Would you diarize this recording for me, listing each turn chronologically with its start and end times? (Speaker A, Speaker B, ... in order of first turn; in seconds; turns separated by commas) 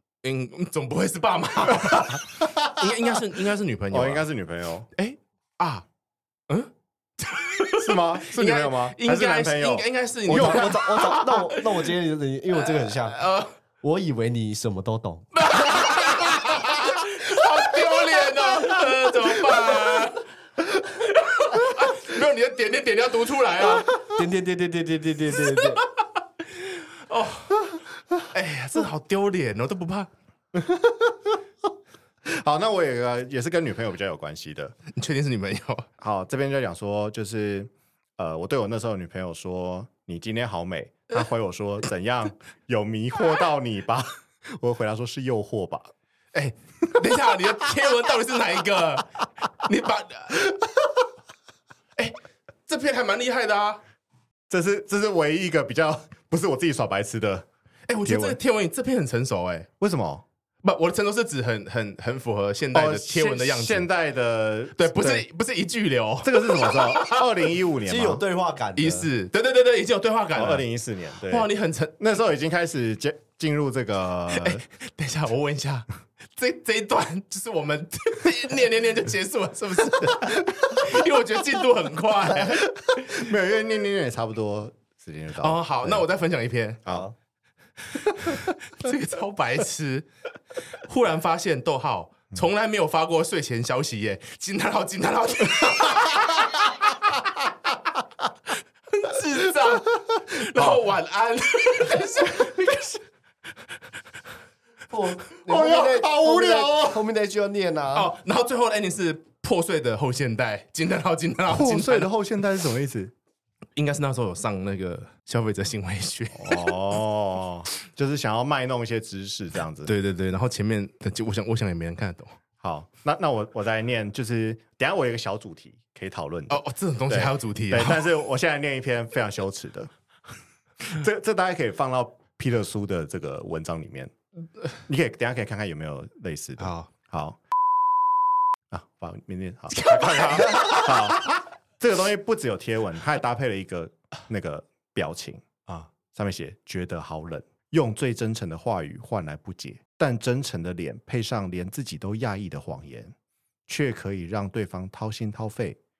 Speaker A: 0.2-4.2, Speaker B: 1.9-3.2, Speaker B: 3.9-4.9, Speaker A: 5.0-5.8, Speaker A: 6.5-11.9, Speaker B: 7.8-10.8, Speaker C: 10.3-13.2, Speaker A: 12.6-13.5, Speaker C: 13.8-15.3, Speaker A: 15.3-20.3, Speaker A: 20.9-24.0, Speaker C: 23.6-25.8, Speaker A: 25.6-25.8, Speaker A: 26.5-27.7, Speaker A: 28.3-30.1, Speaker B: 30.5-31.4, Speaker B: 32.2-34.8, Speaker A: 34.9-35.9, Speaker B: 36.0-45.9, Speaker A: 46.3-50.5, Speaker A: 52.7-53.8, Speaker B: 54.5-57.5, Speaker A: 57.9-59.7, Speaker B: 58.0-58.4, Speaker B: 59.8-60.2, Speaker A: 60.6-63.9, Speaker B: 62.7-65.2, Speaker A: 64.8-67.2, Speaker B: 66.2-68.2, Speaker C: 67.9-69.1, Speaker A: 68.8-70.6, Speaker B: 70.3-74.6, Speaker A: 71.2-72.0, Speaker A: 74.3-82.7, Speaker B: 80.5-80.9, Speaker B: 82.3-86.1, Speaker A: 85.4-86.8, Speaker C: 86.9-87.1, Speaker A: 88.0-90.1, Speaker A: 90.8-96.9, Speaker A: 98.9-103.0, Speaker C: 104.9-108.1, Speaker B: 105.5-107.0, Speaker A: 107.9-112.1, Speaker B: 111.5-113.1, Speaker A: 113.8-116.8, Speaker B: 116.4-119.9, Speaker A: 119.9-122.4, Speaker B: 122.6-129.9, Speaker A: 126.5-128.1, Speaker B: 130.8-134.1, Speaker B: 134.8-137.4, Speaker A: 136.6-136.9, Speaker B: 138.7-153.1, Speaker A: 139.8-141.1, Speaker B: 153.7-155.8